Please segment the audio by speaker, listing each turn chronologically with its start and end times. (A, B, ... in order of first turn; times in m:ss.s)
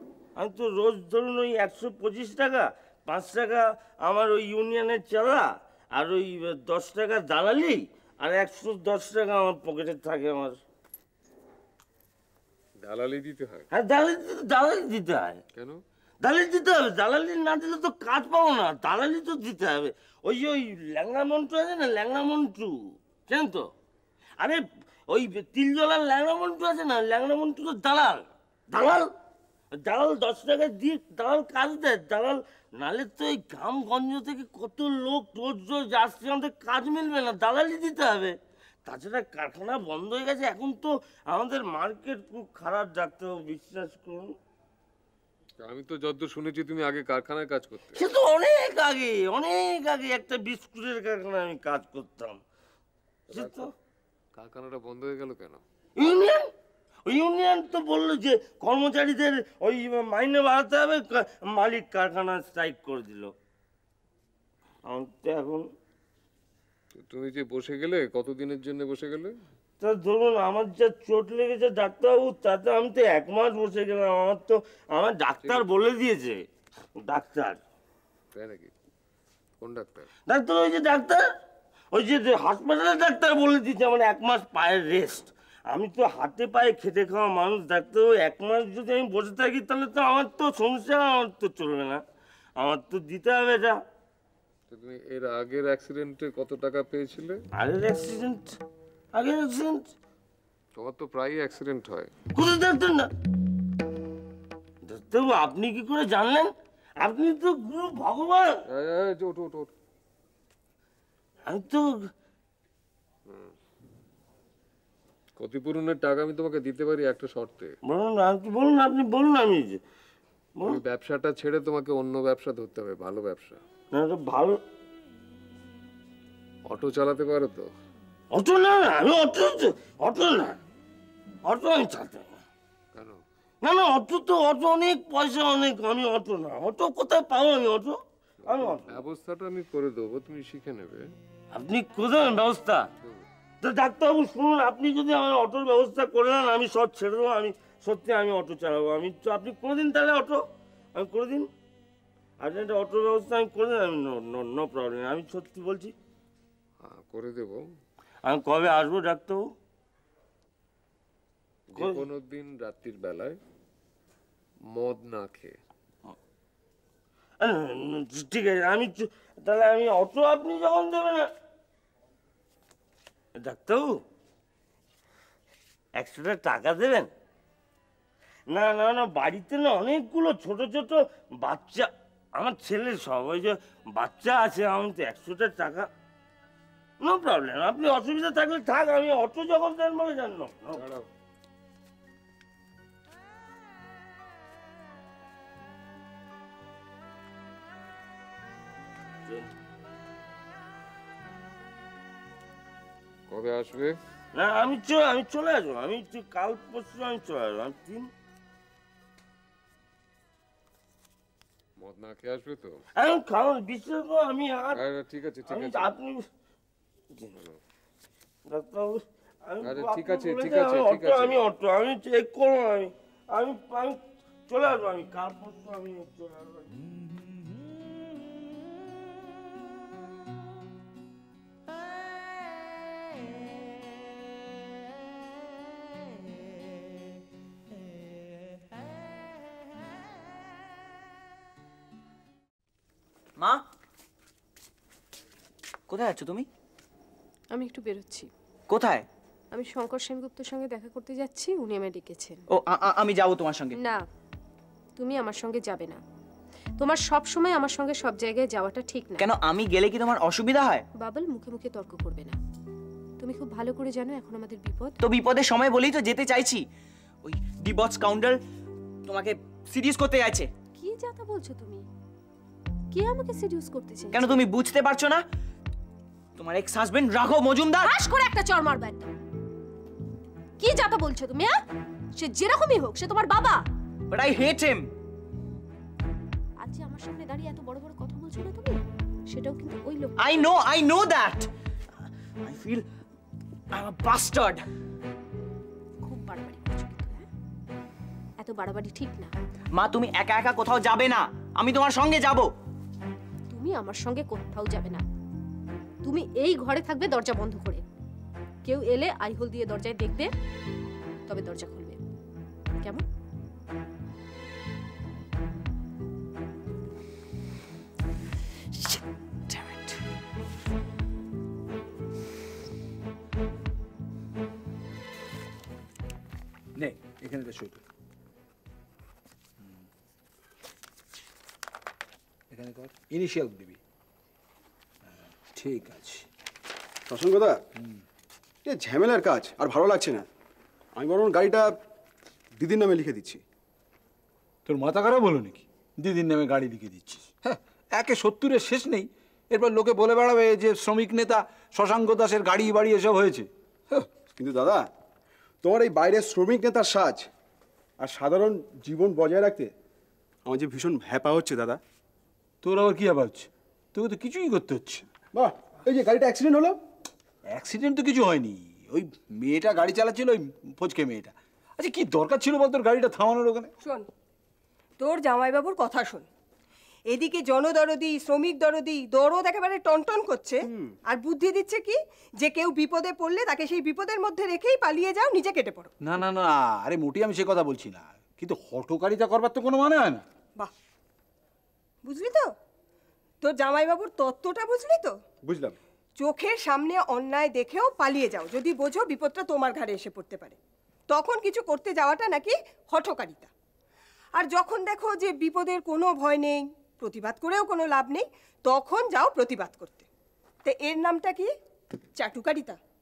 0:00.4-0:10.6 A
0:12.8-0:13.7 B
0:13.7-0:15.4 A
0:15.6-0:15.8 B
0:16.2-0:23.7 A
0:24.4-0:29.1 A
0:29.8-0:44.4 A
0:45.6-0:48.0 B
0:48.0-0:52.4 A
0:53.3-0:53.7 B
0:53.3-0:53.7 A
0:54.4-0:55.6 B
0:56.0-0:56.5 A
0:57.1-1:03.3 A
1:04.9-1:05.6 A
1:06.9-1:09.4 B
1:09.8-1:16.4 A
1:17.0-1:17.6 A
1:18.3-1:18.7 B
1:19.6-1:20.1 B
1:20.3-1:21.2 A
1:21.9-1:32.0 A
1:32.6-1:33.8 A
1:34.7-1:37.4 B
1:37.6-1:38.6 A
1:39.1-1:39.9 A
1:40.8-1:42.1 B
1:42.3-1:43.1 A
1:44.9-1:46.5 A
1:47.0-1:48.6 A
1:48.7-1:49.7 B
1:51.5-1:52.0 A
1:53.3-1:53.5 B
1:55.4-1:57.7 B
1:57.8-1:59.8 A
2:00.6-2:03.6 B
2:03.9-2:04.6 A
2:06.7-2:07.7 B
2:08.3-2:10.6 A
2:11.4-2:12.4 A
2:12.9-2:13.2 B
2:13.6-2:19.0 A
2:18.4-2:21.1 B
2:21.5-2:22.9 A
2:23.6-2:30.4 A
2:31.0-2:31.5 A
2:32.4-2:35.9 A
2:36.8-2:37.7 B
2:38.2-2:39.4 A
2:41.7-2:43.4 B
2:44.7-2:45.6 B
2:47.4-2:51.3 A
2:53.4-2:54.0 A
2:56.0-2:57.1 A
2:58.5-3:05.9 A
3:07.0-3:10.8 A
3:10.8-3:11.1 B
3:23.3-3:24.0 B
3:24.4-3:28.1 A
3:31.8-3:32.8 B
3:33.0-3:34.8 A
3:34.7-3:35.9 B
3:35.5-3:36.2 A
3:37.1-3:37.4 A
3:38.5-3:46.7 A
3:39.6-3:41.4 B
4:03.4-4:03.6 C
4:05.9-4:06.5 C
4:07.5-4:08.3 D
4:08.7-4:09.0 C
4:09.5-4:12.4 D
4:12.5-4:13.8 C
4:13.8-4:14.0 D
4:15.0-4:16.0 D
4:16.8-4:19.2 D
4:19.2-4:20.8 C
4:21.0-4:22.4 D
4:23.2-4:25.0 D
4:25.0-4:26.6 C
4:27.2-4:28.4 C
4:29.0-4:30.5 C
4:30.8-4:31.8 D
4:32.9-4:34.4 D
4:34.1-4:35.2 C
4:36.4-4:37.9 C
4:37.8-4:39.1 D
4:40.6-4:41.6 D
4:42.2-4:43.6 D
4:44.1-4:44.9 C
4:46.6-4:48.8 D
4:49.3-4:50.1 D
4:50.2-4:51.5 C
4:52.4-4:52.8 C
4:53.7-4:54.6 C
4:56.0-4:57.2 D
4:58.4-4:59.3 D
4:59.8-5:02.5 C
5:03.5-5:05.0 D
5:06.0-5:07.8 D
5:08.6-5:10.3 D
5:11.3-5:12.0 D
5:18.7-5:20.0 D
5:26.8-5:27.8 E
5:32.5-5:33.8 E
5:35.1-5:36.3 E
5:37.1-5:37.6 F
5:38.6-5:40.2 F
5:41.0-5:41.8 F
5:42.6-5:43.4 F
5:44.6-5:54.1 E
5:54.3-5:54.9 F
5:55.6-5:57.3 F
5:58.0-5:59.7 F
6:00.4-6:01.8 F
6:02.6-6:05.1 E
6:05.3-6:06.8 F
6:07.5-6:13.7 E
6:13.8-6:14.1 G
6:15.0-6:16.3 G
6:17.1-6:25.9 G
6:26.0-6:30.2 E
6:32.0-6:32.5 G
6:33.4-6:35.2 G
6:35.4-6:35.8 F
6:36.2-6:40.6 G
6:41.1-6:43.5 G
6:44.4-6:50.1 G
6:50.6-6:51.5 G
6:52.2-6:52.8 G